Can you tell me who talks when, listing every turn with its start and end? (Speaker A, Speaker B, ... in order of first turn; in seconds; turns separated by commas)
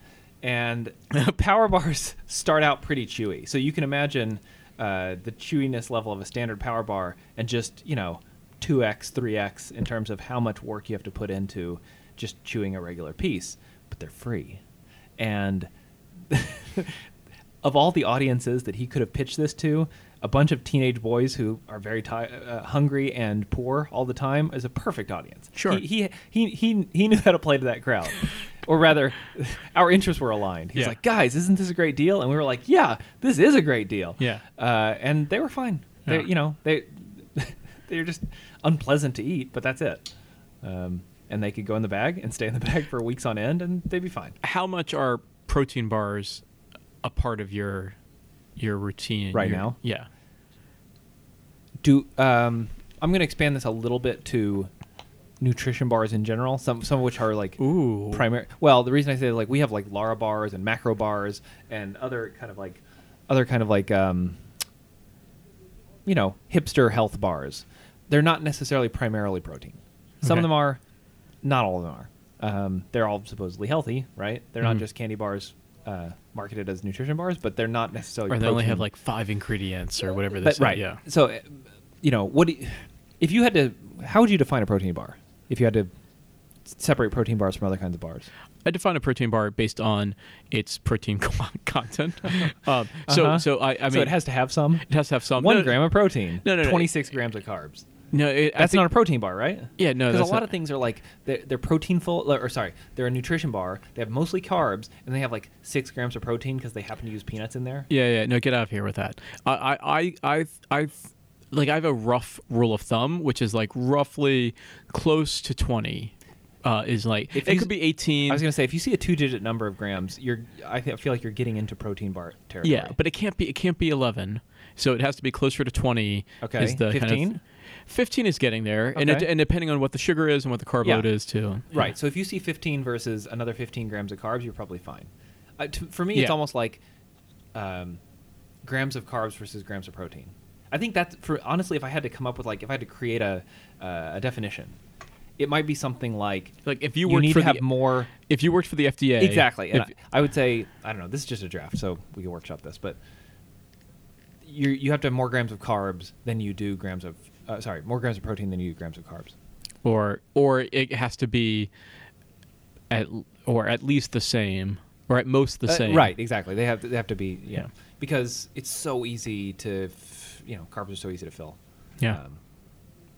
Speaker A: 0.4-14.6, Speaker A: 15.2-15.7, Speaker A: 16.3-17.1, Speaker A: 17.6-40.1, Speaker B: 25.6-25.8, Speaker B: 34.2-34.4, Speaker A: 40.6-44.4, Speaker B: 44.4-46.4, Speaker B: 47.0-48.0, Speaker B: 48.6-50.1, Speaker A: 49.3-49.8, Speaker A: 51.8-54.7, Speaker A: 55.4-64.4, Speaker B: 57.6-58.2, Speaker A: 66.1-70.8, Speaker B: 70.2-70.5, Speaker A: 71.4-78.9, Speaker B: 78.3-81.0, Speaker A: 80.3-85.9, Speaker A: 86.7-88.3, Speaker B: 88.7-94.2, Speaker A: 93.1-97.9, Speaker B: 94.9-96.9, Speaker B: 98.1-98.9, Speaker A: 98.6-107.9, Speaker B: 99.8-100.5, Speaker B: 107.9-118.4, Speaker A: 117.3-117.7, Speaker A: 118.2-123.0, Speaker B: 122.6-127.4, Speaker A: 126.4-127.4, Speaker B: 127.9-131.7, Speaker A: 128.9-129.3, Speaker A: 130.8-131.1, Speaker A: 131.7-136.8, Speaker A: 137.6-138.0, Speaker A: 138.6-144.8, Speaker A: 145.4-148.1, Speaker B: 146.7-149.9, Speaker A: 149.2-153.0, Speaker A: 154.4-159.3, Speaker B: 159.8-161.7, Speaker B: 162.9-166.1, Speaker A: 165.7-172.4